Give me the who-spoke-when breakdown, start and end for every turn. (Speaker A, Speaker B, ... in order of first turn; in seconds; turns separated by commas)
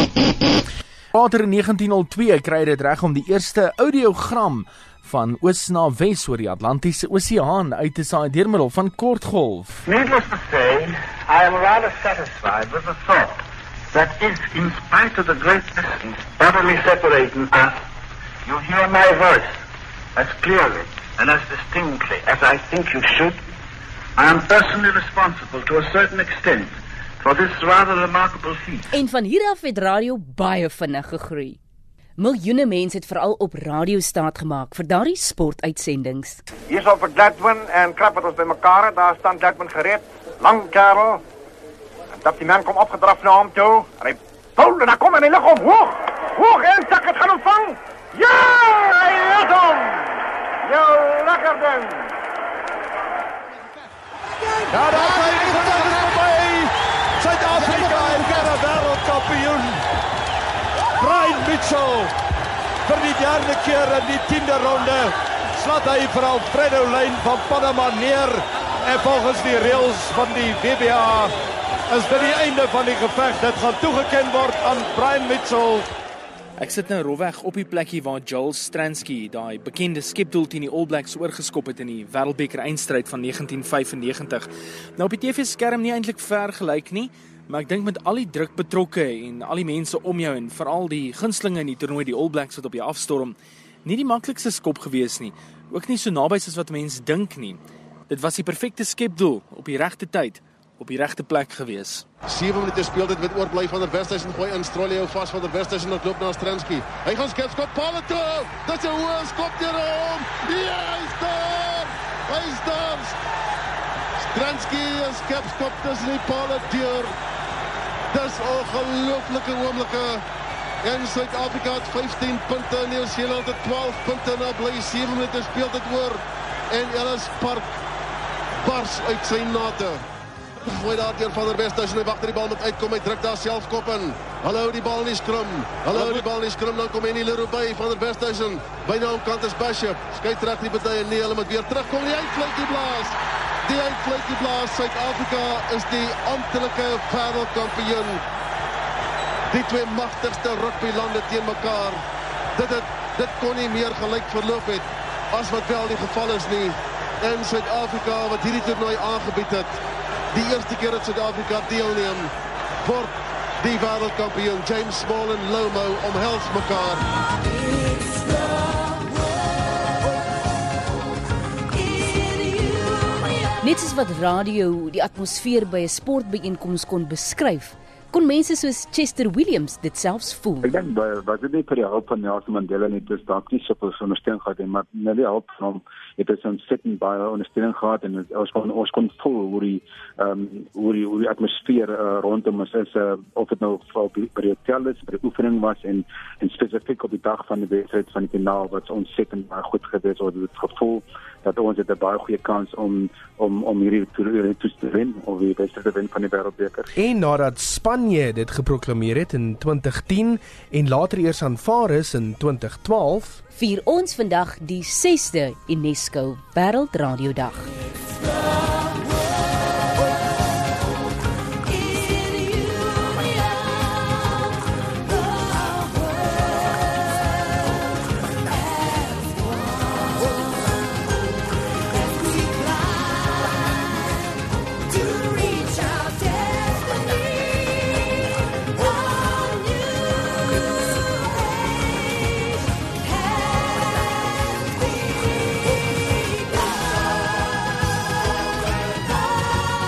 Speaker A: 1.1-9.8, Speaker B: 9.9-13.4, Speaker B: 13.9-17.8, Speaker B: 18.4-19.6, Speaker B: 20.2-23.4, Speaker B: 24.2-28.9, Speaker C: 28.9-31.6, Speaker C: 32.2-36.4, Speaker D: 36.7-41.2, Speaker D: 42.2-52.1, Speaker E: 54.7-59.8, Speaker E: 61.0-62.1, Speaker E: 62.9-71.3, Speaker E: 71.9-75.9, Speaker A: 76.6-102.0, Speaker F: 102.3-113.2, Speaker F: 114.3-117.1, Speaker F: 118.1-120.2, Speaker F: 120.8-127.8, Speaker F: 128.6-130.0, Speaker F: 130.6-148.2, Speaker F: 149.5-152.0, Speaker F: 152.6-159.8, Speaker F: 160.3-162.3, Speaker F: 162.8-167.1, Speaker C: 173.6-180.7, Speaker G: 180.6-206.9, Speaker H: 207.0-213.4, Speaker C: 213.6-217.7, Speaker C: 235.0-237.7, Speaker C: 239.2-239.7